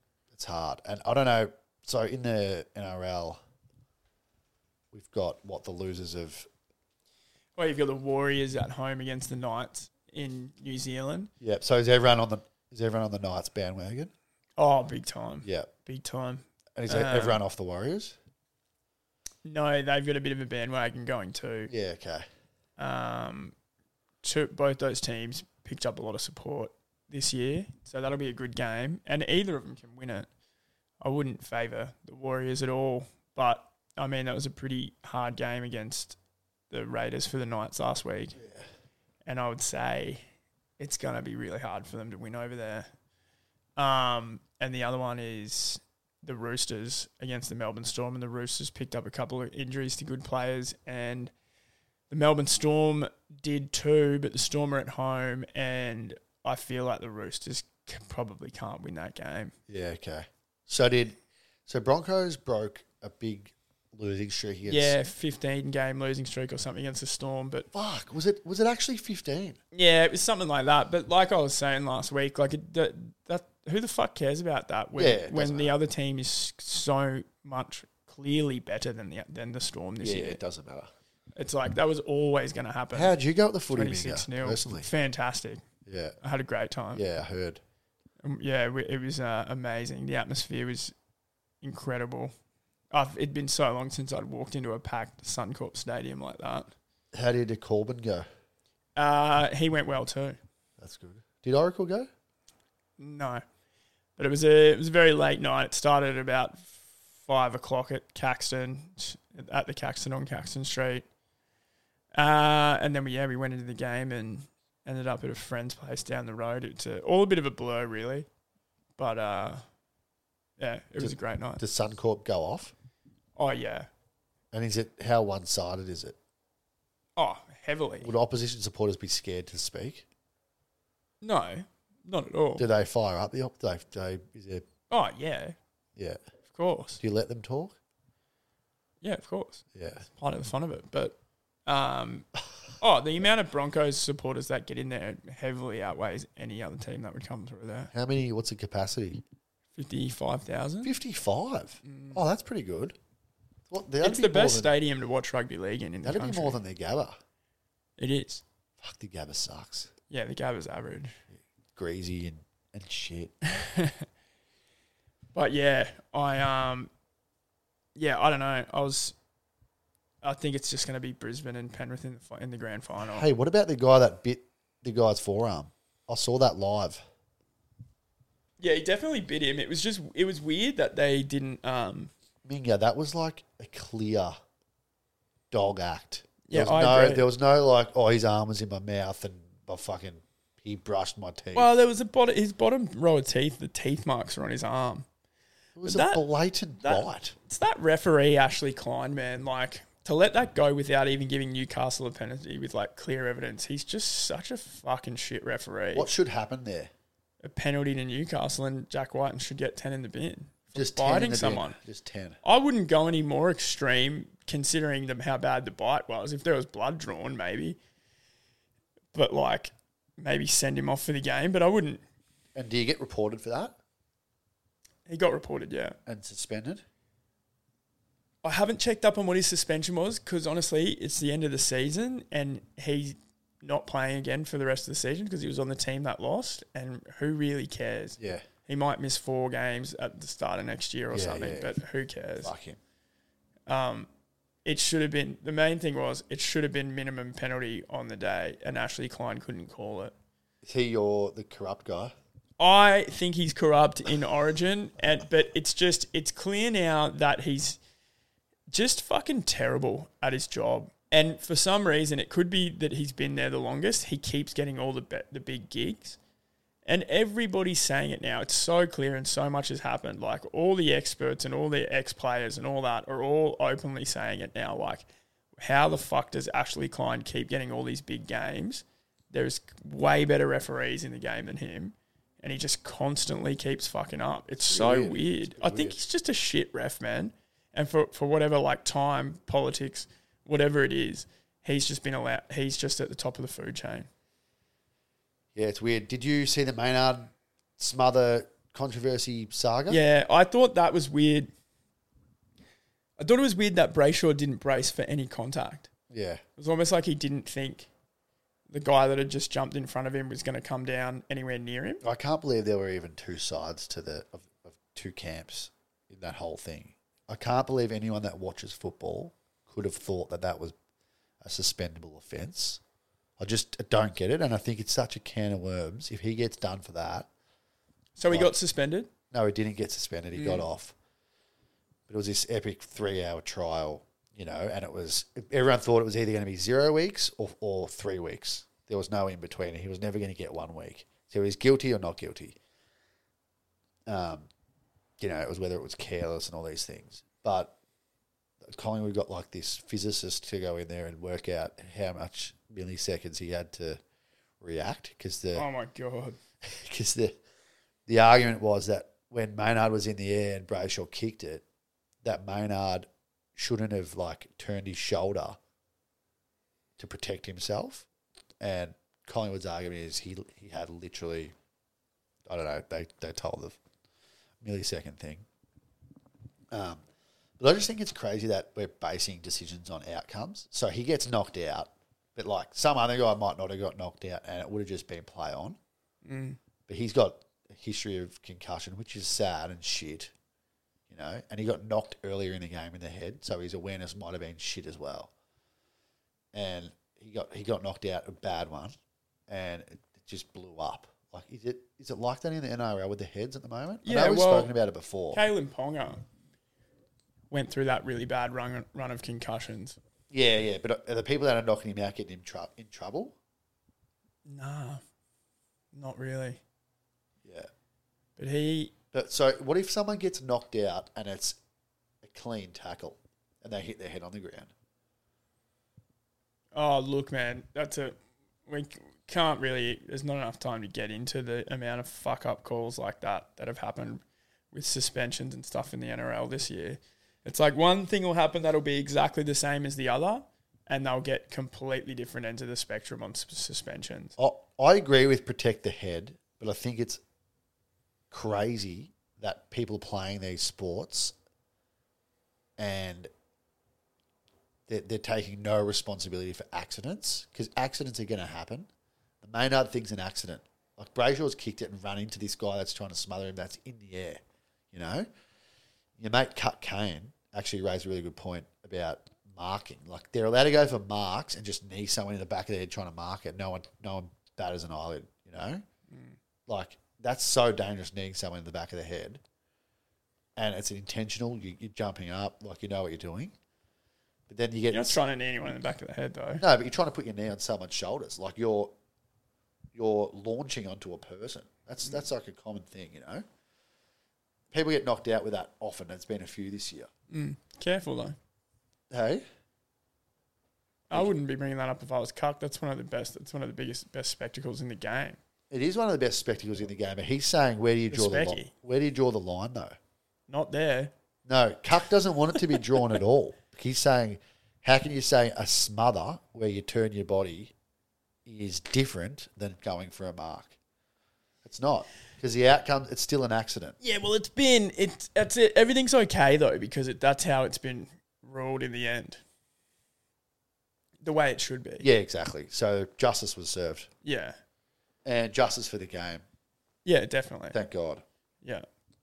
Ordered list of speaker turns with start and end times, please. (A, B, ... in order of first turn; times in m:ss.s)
0:00.3-0:03.4 A
0:04.9-0:06.5 A
0:07.6-0:11.3 B
0:11.4-0:14.1 A
0:14.6-0:17.4 B
0:15.4-0:15.7 A
0:16.8-0:18.2 A
0:19.4-0:21.7 B
0:21.7-0:22.2 A
0:22.8-0:23.5 B
0:24.2-0:30.3 B
0:31.0-0:36.2 B
0:36.7-0:38.4 B
0:38.4-0:38.6 A
0:39.2-0:40.2 B
0:40.8-0:42.9 B
0:43.8-0:51.3 B
0:52.1-0:59.5 B
0:59.7-1:05.0 A
1:04.7-1:07.7 B
1:07.7-1:09.6 A
1:09.7-1:20.4 B
1:15.0-1:15.7 A
1:20.0-1:20.9 A
1:21.4-1:23.1 B
1:22.9-1:24.9 A
1:23.7-1:25.6 B
1:25.8-1:26.2 A
1:26.2-1:27.0 B
1:26.9-1:27.6 A
1:28.2-1:30.9 B
1:31.6-1:32.3 B
1:32.9-1:36.7 B
1:37.1-1:38.2 A
1:39.0-1:40.4 B
1:40.8-1:42.1 A
1:43.0-1:43.4 B
1:44.2-1:51.0 B
1:52.1-1:58.2 B
1:59.0-1:59.6 B
2:00.6-2:01.6 B
2:01.0-2:02.7 A
2:03.4-2:03.9 B
2:04.5-2:06.2 A
2:07.2-2:08.1 B
2:08.0-2:10.0 A
2:11.2-2:12.6 B
2:12.6-2:14.6 A
2:14.9-2:15.6 B
2:16.5-2:17.0 B
2:17.0-2:17.8 A
2:19.0-2:22.3 B
2:19.7-2:20.0 A
2:22.8-2:27.9 B
2:27.9-2:29.2 A
2:29.7-2:30.9 B
2:30.8-2:33.0 A
2:31.8-2:32.2 B
2:33.7-2:34.7 A
2:34.0-2:36.6 B
2:36.0-2:37.2 A
2:38.0-2:38.4 B
2:38.8-2:39.9 A
2:40.1-2:41.2 B
2:41.3-2:43.5 A
2:43.5-2:44.0 B
2:45.3-2:46.9 B
2:48.0-2:49.2 B
2:50.2-2:53.3 B
2:53.0-2:57.0 A
2:58.6-3:02.1 B
3:02.4-3:04.4 A
3:05.5-3:11.7 A
3:06.4-3:07.2 B
3:11.5-3:15.0 B
3:15.8-3:17.3 A
3:15.8-3:16.2 B
3:16.8-3:26.1 B
3:25.9-3:26.9 A
3:27.4-3:31.8 B
3:30.7-3:32.4 A
3:32.4-3:37.8 B
3:39.1-3:42.0 B
3:42.5-3:43.8 A
3:45.1-3:46.0 B
3:46.0-3:46.8 A
3:48.4-4:02.5 B
3:58.2-3:58.4 A
4:01.1-4:01.8 A
4:02.4-4:02.8 A
4:03.7-4:04.1 B
4:04.6-4:10.1 B
4:10.6-4:12.1 A
4:12.6-4:17.8 B
4:18.7-4:26.2 B
4:26.8-4:35.0 B
4:35.6-4:54.1 B
4:44.6-4:46.0 A
4:55.5-5:00.0 A
4:59.9-5:01.5 B
5:03.2-5:05.9 B
5:06.1-5:06.4 A
5:06.6-5:07.9 B
5:08.7-5:12.0 B
5:12.0-5:20.7 A
5:21.4-5:22.8 A
5:23.4-5:27.3 A
5:28.2-5:29.1 B
5:29.3-5:30.9 A
5:30.3-5:30.6 B
5:32.1-5:42.6 A
5:44.1-5:44.5 A
5:45.2-5:47.8 A
5:48.6-5:54.0 A
5:54.6-5:55.6 A
5:55.5-5:56.4 B
5:56.6-5:57.4 A
5:58.1-6:01.6 A
6:02.2-6:05.6 A
6:07.0-6:08.1 A
6:08.6-6:11.5 A
6:12.4-6:13.8 A
6:14.6-6:15.4 A
6:16.7-6:17.0 A
6:17.6-6:25.8 A
6:26.2-6:26.6 B
6:26.9-6:30.3 A
6:31.1-6:35.3 A
6:36.5-6:38.9 A
6:39.5-6:45.4 A
6:44.0-6:44.7 B
6:45.3-6:46.2 B
6:47.5-6:50.0 B
6:50.3-6:53.4 A
6:54.4-6:55.0 B
6:55.9-6:56.6 B
6:57.4-6:57.7 A
6:58.4-6:58.9 B
6:59.1-7:01.6 A
7:02.2-7:04.7 A
7:06.7-7:24.3 B
7:24.4-7:27.2 A
7:28.3-7:31.4 A
7:32.8-7:33.3 A
7:34.9-7:38.9 A
7:39.4-7:44.4 A
7:44.9-7:45.3 A
7:46.2-7:55.8 A
7:56.1-7:56.4 B
7:56.7-7:59.4 A
8:00.6-8:03.5 A
8:04.5-8:05.2 A
8:04.9-8:06.6 B
8:06.6-8:08.9 A
8:09.9-8:13.4 A
8:14.7-8:17.1 A
8:17.3-8:18.4 B
8:19.1-8:19.4 A
8:21.1-8:25.4 B
8:25.7-8:30.0 A
8:28.1-8:28.7 B
8:30.5-8:31.1 B
8:31.4-8:37.7 A
8:38.4-8:40.8 A
8:41.6-8:44.0 A
8:44.0-8:49.4 B
8:51.2-8:52.1 B
8:52.0-8:54.1 A
8:54.2-8:54.6 B
8:55.2-8:56.4 A
8:57.0-8:57.8 B
8:57.7-8:58.2 A